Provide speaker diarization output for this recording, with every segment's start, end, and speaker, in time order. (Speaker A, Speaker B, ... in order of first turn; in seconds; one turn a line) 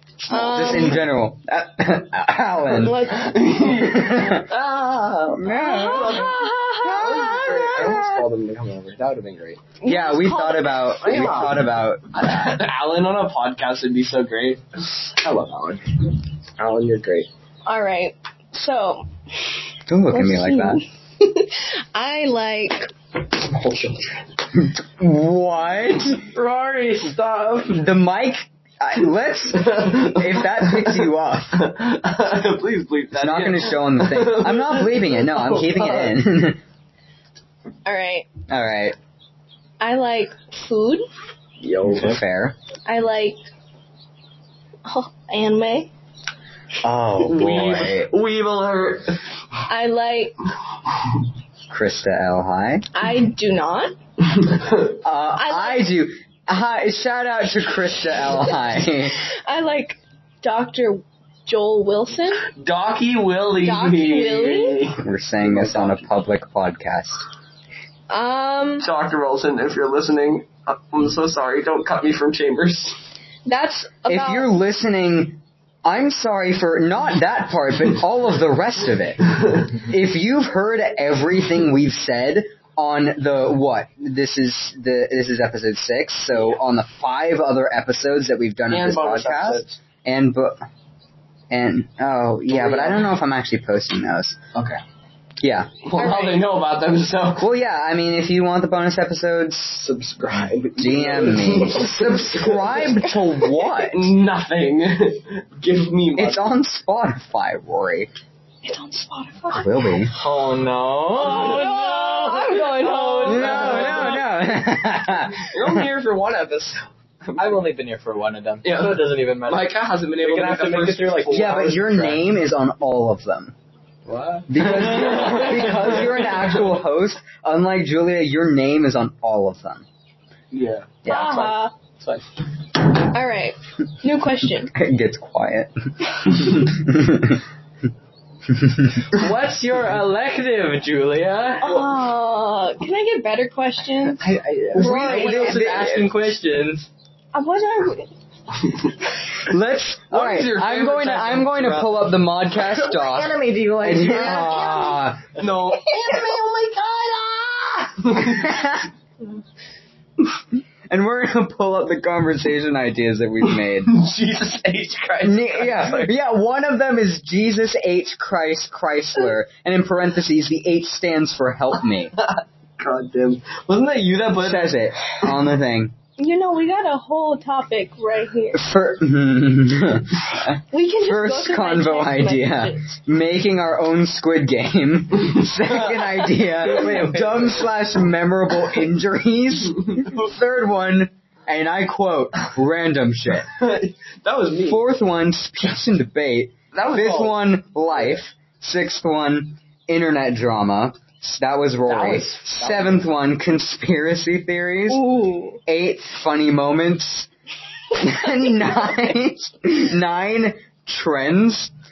Speaker A: 0.2-3.1
Speaker B: 0.3-1.1
Speaker B: 2.7-3.2
Speaker C: 3.1-4.5
Speaker A: 3.8-8.3
Speaker B: 5.5-7.7
Speaker C: 5.7-9.7
Speaker B: 9.8-11.2
Speaker A: 9.8-12.6
Speaker C: 11.0-15.8
Speaker C: 16.6-17.3
Speaker B: 17.7-19.1
Speaker A: 19.9-20.8
Speaker B: 20.1-22.9
Speaker C: 23.4-24.1
Speaker A: 24.6-26.2
Speaker D: 26.3-27.9
Speaker A: 27.7-31.7
Speaker C: 29.6-36.2
Speaker A: 33.1-36.6
Speaker B: 37.9-38.3
Speaker A: 38.5-39.0
Speaker B: 39.8-41.1
Speaker C: 41.6-42.2
Speaker A: 41.9-42.5
Speaker B: 42.9-43.4
Speaker B: 44.9-45.9
Speaker A: 46.8-48.1
Speaker C: 47.2-49.3
Speaker B: 49.7-50.4
Speaker A: 51.7-52.9
Speaker B: 52.9-54.0
Speaker C: 54.4-54.9
Speaker A: 55.0-59.2
Speaker B: 55.4-55.9
Speaker B: 59.2-62.5
Speaker C: 62.5-66.1
Speaker B: 63.6-64.8
Speaker A: 65.0-67.2
Speaker B: 68.1-68.9
Speaker C: 68.8-73.0
Speaker B: 73.5-74.5
Speaker A: 74.1-90.7
Speaker C: 88.7-89.8
Speaker A: 91.5-94.4
Speaker C: 92.5-93.1
Speaker C: 94.5-94.8
Speaker A: 95.4-95.7
Speaker C: 95.8-97.5
Speaker B: 96.0-96.6
Speaker A: 97.4-99.8
Speaker C: 99.8-103.2
Speaker A: 100.8-104.1
Speaker C: 103.8-106.5
Speaker A: 106.2-108.1
Speaker B: 108.6-110.0
Speaker A: 109.5-110.1
Speaker D: 110.1-114.3
Speaker B: 111.2-114.2
Speaker C: 111.3-111.6
Speaker A: 113.3-115.9
Speaker C: 113.6-114.1
Speaker C: 115.4-117.5
Speaker D: 117.4-122.2
Speaker C: 118.6-122.0
Speaker A: 121.3-123.5
Speaker D: 124.1-126.4
Speaker C: 124.1-124.5
Speaker A: 124.5-129.8
Speaker C: 125.0-125.8
Speaker C: 130.5-131.2
Speaker A: 131.0-131.6
Speaker B: 131.1-131.7
Speaker B: 133.0-134.7
Speaker A: 134.7-137.4
Speaker A: 138.6-139.0
Speaker D: 139.1-141.8
Speaker B: 141.6-145.9
Speaker D: 144.2-146.9
Speaker A: 144.8-146.0
Speaker B: 147.3-148.1
Speaker A: 149.4-155.3
Speaker C: 150.1-151.9
Speaker C: 152.6-158.6
Speaker A: 158.3-158.9
Speaker A: 160.9-163.9
Speaker C: 163.9-166.1
Speaker A: 165.2-172.2
Speaker C: 172.2-175.3
Speaker A: 174.4-175.9
Speaker B: 176.2-178.6
Speaker A: 178.5-193.5
Speaker B: 180.7-183.0
Speaker D: 186.6-187.7
Speaker C: 193.5-194.8
Speaker A: 194.7-205.1
Speaker C: 196.7-197.4
Speaker C: 197.9-198.2
Speaker C: 201.8-203.1
Speaker B: 204.9-205.6
Speaker A: 205.7-207.3
Speaker A: 207.9-211.7